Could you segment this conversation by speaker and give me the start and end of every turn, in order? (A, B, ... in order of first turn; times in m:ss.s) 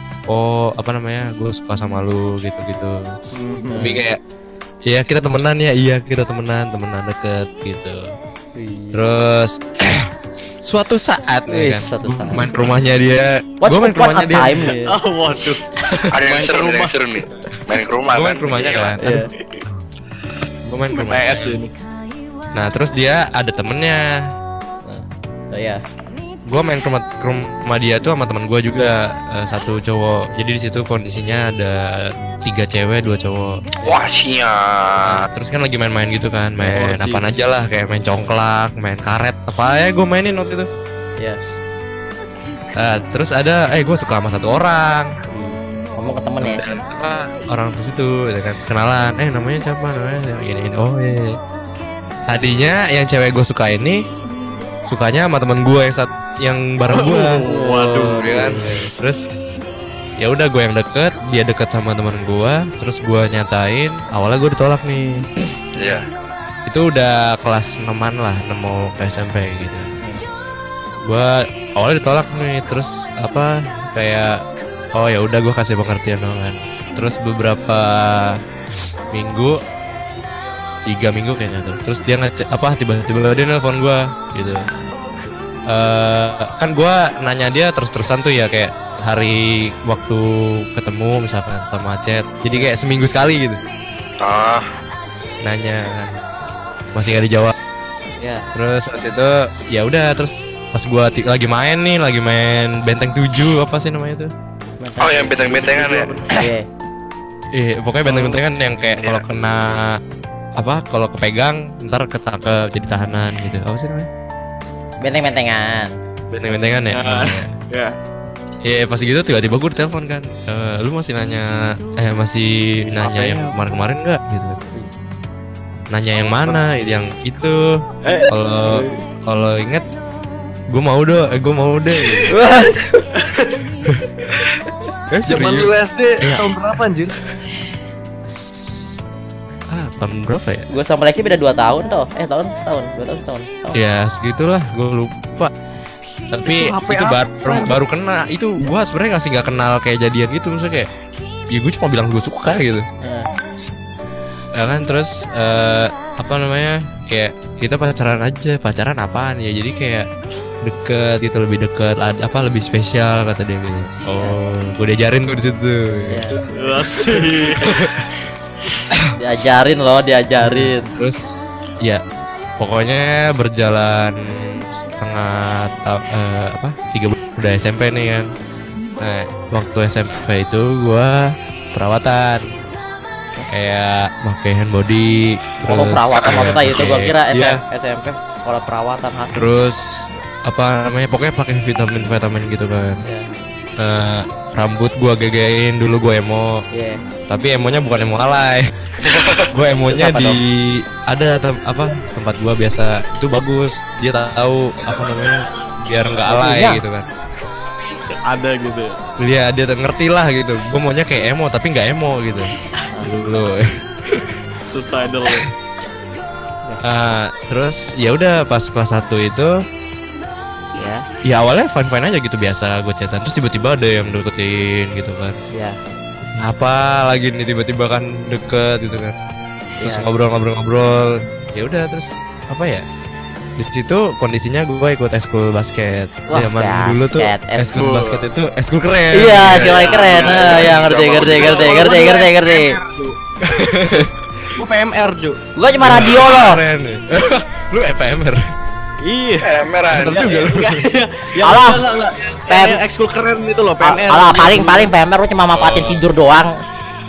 0:00.3-0:03.1 A
0:03.3-0:04.0 B
0:03.7-0:04.0 C
0:03.8-0:04.2 A
0:04.8-0:08.1 A
0:08.6-0:09.0 C
0:08.9-0:10.1 A
0:10.6-0:14.7 A
0:11.5-0:12.5 C
0:12.1-0:12.8 B
0:13.6-0:15.0 C
0:14.8-0:16.9 B
0:16.1-0:18.9 D
0:18.1-0:19.2 A
0:19.0-0:19.3 C
0:19.4-0:19.6 B
0:20.7-0:21.6 A
0:20.9-0:21.7 B
0:22.5-0:24.2 A
0:24.8-0:25.8 C
0:26.5-0:33.6 A
0:33.8-0:35.3 D
0:35.0-0:40.7 A
0:36.6-0:37.3 C
0:42.8-0:45.1 A
0:45.3-0:46.6 C
0:46.4-0:51.4 A
0:52.3-0:54.0 A
0:54.8-0:59.2 A
0:56.9-0:58.9 B
1:00.2-1:05.2 A
1:05.8-1:06.0 D
1:06.6-1:09.9 A
1:11.0-1:14.4 A
1:14.9-1:18.4 A
1:19.1-1:19.6 A
1:20.9-1:24.6 A
1:25.7-1:33.6 A
1:34.2-1:34.7 D
1:35.4-1:36.2 A
1:36.9-1:37.5 A
1:38.2-1:38.4 C
1:38.5-1:44.3 A
1:44.8-1:46.6 C
1:45.0-1:46.2 D
1:47.5-1:50.0 A
1:48.1-1:48.3 C
1:50.6-1:54.1 A
1:55.0-1:55.9 C
1:56.3-1:57.5 A
1:56.9-1:57.9 B
1:58.6-2:04.6 A
2:03.0-2:03.5 B
2:05.9-2:09.8 A
2:08.0-2:08.3 B
2:08.7-2:09.0 C
2:10.7-2:12.4 A
2:12.3-2:13.1 C
2:13.2-2:13.6 B
2:13.9-2:14.5 A
2:15.1-2:16.4 A
2:15.2-2:17.1 B
2:18.2-2:19.0 A
2:19.7-2:20.7 A
2:20.7-2:23.8 C
2:23.7-2:25.5 A
2:26.3-2:30.9 A
2:26.4-2:27.8 B
2:31.5-2:32.8 A
2:33.0-2:33.3 C
2:34.5-2:40.1 A
2:40.6-2:46.2 A
2:46.1-2:46.4 C
2:46.5-2:47.8 B
2:47.0-2:48.1 A
2:49.2-2:50.9 C
2:50.4-2:52.0 A
2:52.6-2:58.3 A
2:59.0-3:02.5 A
3:03.5-3:07.6 A
3:05.6-3:09.4 C
3:06.1-3:06.6 D
3:09.3-3:13.0 A
3:13.0-3:13.3 C
3:13.8-3:16.6 A
3:16.7-3:17.0 C
3:17.3-3:18.7 A
3:19.1-3:20.4 C
3:19.4-3:27.0 A
3:26.2-3:26.8 C
3:28.2-3:29.0 B
3:29.2-3:34.3 A
3:32.9-3:33.2 C
3:34.7-3:35.5 B
3:36.8-3:39.5 A
3:40.7-3:41.0 C
3:41.2-3:45.4 A
3:45.5-3:45.8 C
3:46.3-3:49.2 A
3:49.8-3:50.1 C
3:49.8-3:52.8 A
3:53.6-3:59.9 A
3:56.3-3:57.9 C
3:57.7-3:58.2 B
3:59.1-4:02.8 C
3:59.5-4:01.8 D
3:59.8-4:03.2 B
4:03.4-4:04.1 A
4:04.5-4:05.4 B
4:05.6-4:06.6 C
4:05.8-4:08.5 A
4:09.0-4:14.9 B
4:09.4-4:10.3 D
4:10.0-4:10.8 A
4:11.4-4:11.8 C
4:12.5-4:12.8 C
4:13.8-4:16.6 C
4:15.5-4:16.0 A